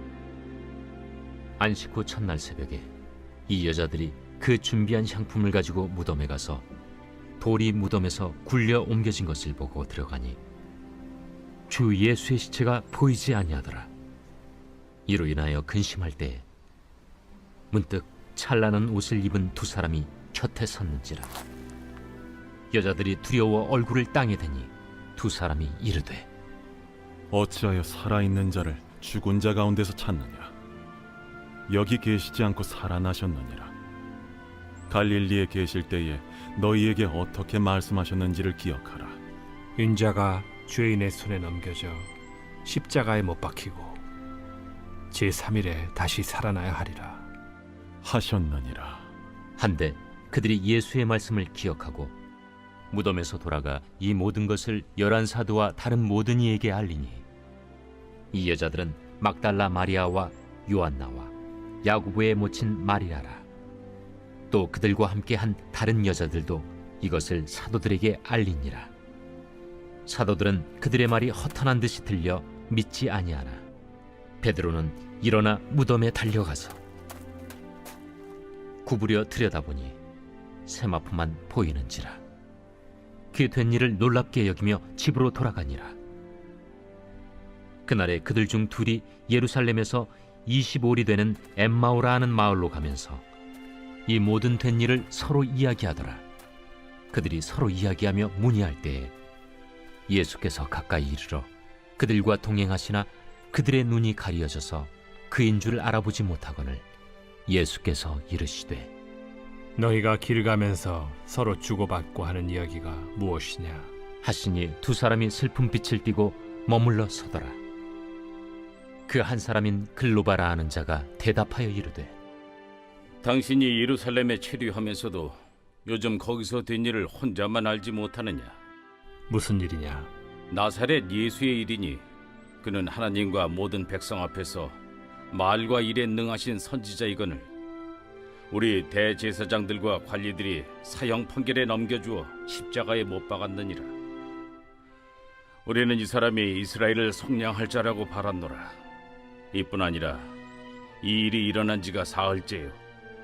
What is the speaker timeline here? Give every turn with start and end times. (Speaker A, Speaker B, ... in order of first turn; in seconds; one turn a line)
Speaker A: 1.6-2.9
Speaker A: 3.5-6.7
Speaker A: 7.4-10.4
Speaker A: 11.7-13.9
Speaker A: 15.1-16.5
Speaker A: 17.7-21.3
Speaker A: 22.7-26.3
Speaker B: 27.3-30.5
Speaker B: 31.7-33.8
Speaker B: 34.9-39.2
Speaker C: 39.8-44.0
Speaker C: 45.1-47.3
Speaker B: 48.0-49.1
Speaker A: 49.6-52.1
Speaker A: 52.9-57.2
Speaker A: 58.3-63.5
Speaker A: 64.5-68.9
Speaker A: 70.1-73.6
Speaker A: 74.4-76.8
Speaker A: 78.8-80.0
Speaker A: 80.7-82.2
Speaker A: 83.3-86.0
Speaker A: 87.8-93.2
Speaker A: 94.1-96.2
Speaker A: 97.1-99.1
Speaker A: 100.1-106.8
Speaker A: 107.5-108.9
Speaker C: 109.8-113.9
Speaker A: 114.2-117.6
Speaker A: 119.1-122.2
Speaker D: 123.2-128.6
Speaker C: 129.3-130.1
Speaker D: 130.5-132.0
Speaker D: 132.6-134.8
Speaker D: 135.3-137.5
Speaker D: 138.5-143.9
Speaker D: 145.7-148.8
Speaker D: 149.5-150.3
Speaker D: 151.0-152.8